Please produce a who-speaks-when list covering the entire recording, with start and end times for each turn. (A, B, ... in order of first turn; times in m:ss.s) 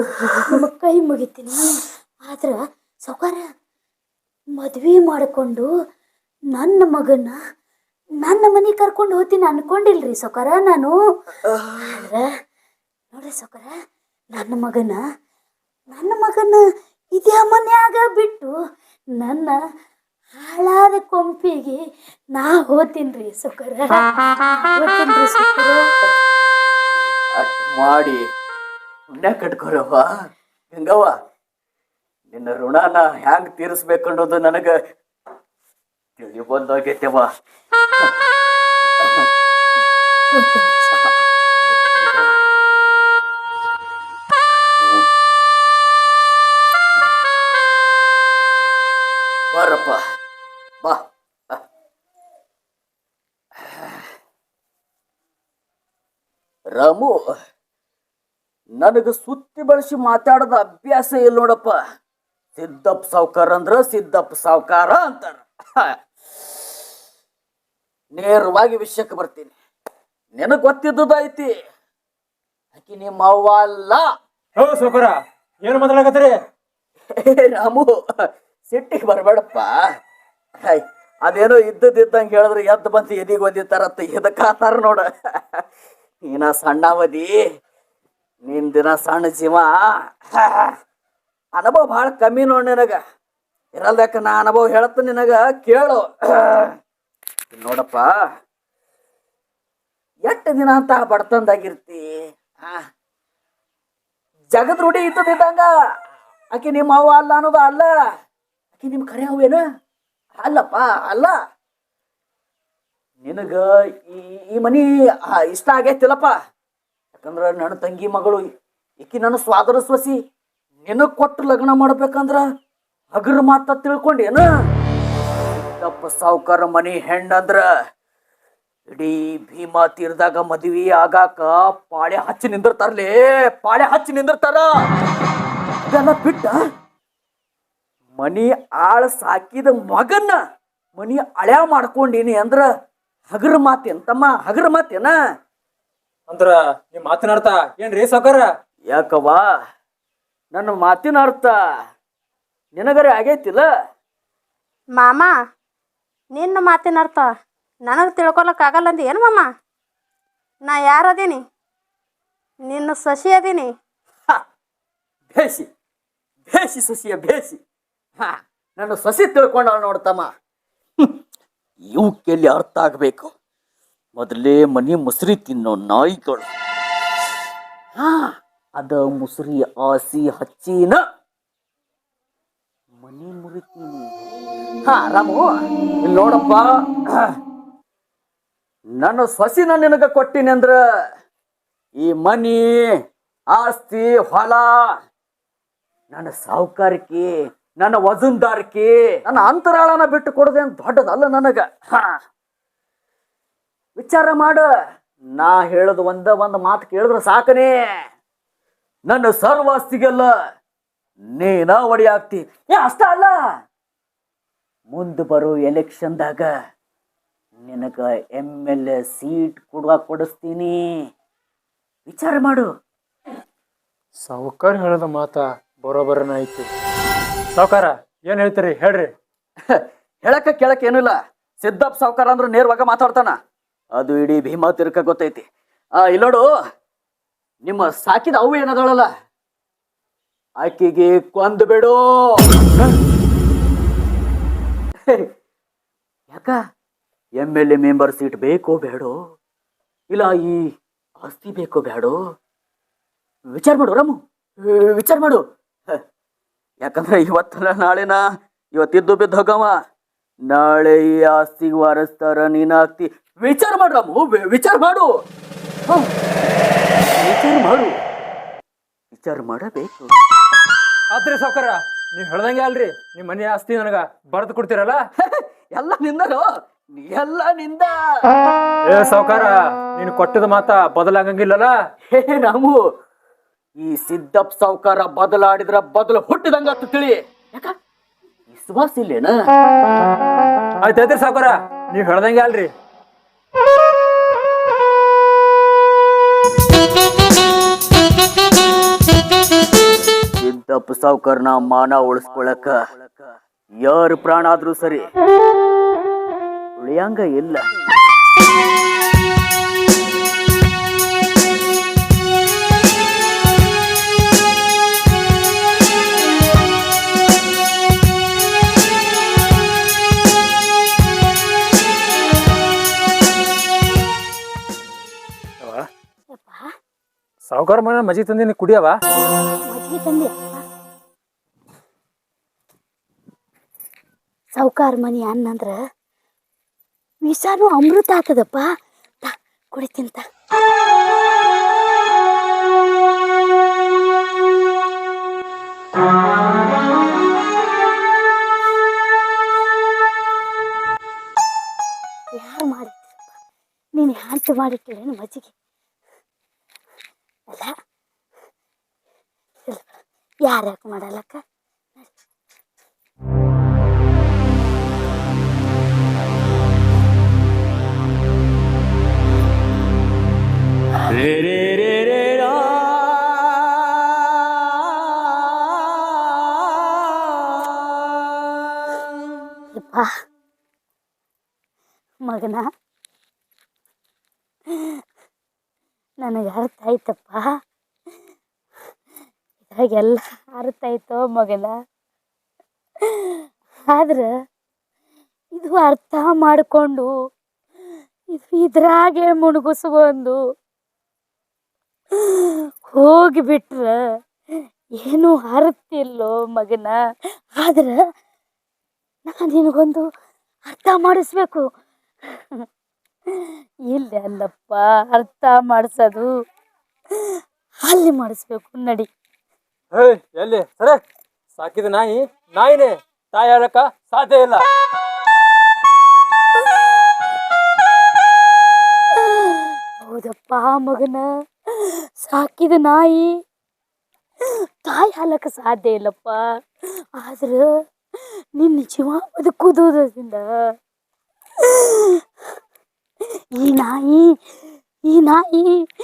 0:00.1-0:00.6 A
0:00.3-0:03.4 B
0:04.6-0:05.7 B
0:06.5-0:07.4 B
0:08.2-0:10.9 B
0:11.4-0:12.0 A
0:11.8-0:12.3 B
0:13.1-0:13.7 B
0:14.3-0:15.0 B
0:15.9-0:16.6 B
0:17.2-0:18.5 B
0:19.2-0:19.6 B
0:20.4-0:21.8 B
0:22.4-0:24.0 B
0:24.7-0:25.8 B
0:27.4-0:28.2 A
0:29.1-0:30.1 A
0:30.7-0:31.1 A
0:32.3-0:34.8 A
0:36.2-0:37.3 A
0:39.0-0:39.3 A
0:40.3-0:40.9 B
0:40.9-0:42.3 A
0:44.8-0:45.1 A
0:49.5-0:50.0 A
0:50.8-0:51.6 A
0:53.6-0:54.1 A
0:56.7-0:57.2 A
0:58.8-1:01.8 A
1:02.6-1:06.0 A
1:08.1-1:09.5 A
1:10.4-1:11.5 A
1:12.7-1:14.0 A
1:14.6-1:16.4 C
1:17.1-1:17.9 A
1:18.7-1:19.7 A
1:20.6-1:25.6 A
1:26.3-1:27.4 A
1:28.5-1:30.7 A
1:31.6-1:33.0 A
1:33.8-1:36.7 A
1:37.5-1:38.1 A
1:40.3-1:42.0 A
1:44.5-1:45.7 A
1:46.5-1:47.9 A
1:48.8-1:49.6 A
1:50.4-1:51.3 A
1:53.2-1:56.4 A
1:57.2-1:58.5 A
1:59.0-2:00.2 A
2:00.8-2:02.4 A
2:03.2-2:04.5 A
2:05.6-2:07.6 A
2:08.9-2:14.7 A
2:15.9-2:16.6 A
2:18.2-2:20.4 A
2:21.0-2:22.7 A
2:23.3-2:25.2 A
2:26.3-2:28.5 C
2:28.9-2:29.4 A
2:30.5-2:31.6 A
2:32.8-2:33.6 A
2:35.0-2:35.3 D
2:36.4-2:37.3 D
2:37.9-2:39.4 D
2:40.7-2:41.4 D
2:42.7-2:43.7 D
2:45.3-2:45.7 A
2:46.5-2:47.6 A
2:48.2-2:50.3 A
2:51.9-2:53.3 A
2:54.2-2:56.5 A
2:58.0-3:01.0 A
3:03.0-3:04.2 A
3:04.8-3:05.4 A
3:06.0-3:07.3 A
3:09.0-3:10.8 A
3:12.0-3:12.7 A
3:13.5-3:14.7 A
3:16.1-3:17.3 A
3:17.8-3:22.2 A
3:24.0-3:24.7 A
3:25.4-3:27.7 A
3:29.1-3:30.3 A
3:31.4-3:33.3 A
3:34.9-3:36.5 A
3:37.6-3:40.8 A
3:42.1-3:42.7 A
3:44.2-3:46.7 C
3:47.5-3:49.1 C
3:49.7-3:53.4 A
3:54.0-3:55.5 A
3:56.0-3:56.4 A
3:57.6-3:59.1 A
4:00.6-4:03.0 A
4:05.0-4:05.3 A
4:06.3-4:06.6 A
4:07.4-4:09.2 A
4:10.1-4:10.6 A
4:11.2-4:12.2 A
4:13.5-4:16.0 A
4:16.8-4:18.2 A
4:18.8-4:19.7 A
4:20.5-4:25.1 A
4:27.1-4:27.9 A
4:29.1-4:30.1 A
4:31.1-4:35.0 C
4:35.2-4:37.9 A
4:38.9-4:41.7 C
4:42.1-4:42.8 A
4:43.8-4:47.7 A
4:48.5-4:49.3 A
4:50.8-4:52.7 C
5:00.4-5:03.3 A
5:03.8-5:05.1 A
5:06.8-5:07.7 A
5:25.6-5:25.9 C
5:26.3-5:26.7 B
5:27.5-5:29.0 C
5:29.7-5:30.6 B
5:34.6-5:35.8 B
5:37.2-5:38.7 B
5:39.2-5:40.2 B
5:52.4-5:53.1 B
5:54.0-5:55.5 B
5:59.7-6:01.4 B
6:11.1-6:17.9 A
6:19.7-6:20.1 B
6:22.3-6:22.6 B
6:26.2-6:27.4 B
6:29.6-6:31.7 B
6:33.1-6:34.3 B
6:35.6-6:37.1 B
6:38.3-6:40.4 B
6:42.2-6:43.9 B
6:45.0-6:47.0 B
6:47.6-6:48.0 B
6:49.3-6:50.0 B
6:50.7-6:51.6 B
6:53.4-6:56.3 B
6:57.9-6:59.1 B
6:59.9-7:01.0 C
7:01.6-7:04.6 C
7:09.2-7:13.4 B
7:14.5-7:16.4 B
7:17.2-7:17.7 B
7:18.6-7:20.4 B
7:21.6-7:22.2 B
7:23.6-7:24.3 B
7:25.1-7:25.8 B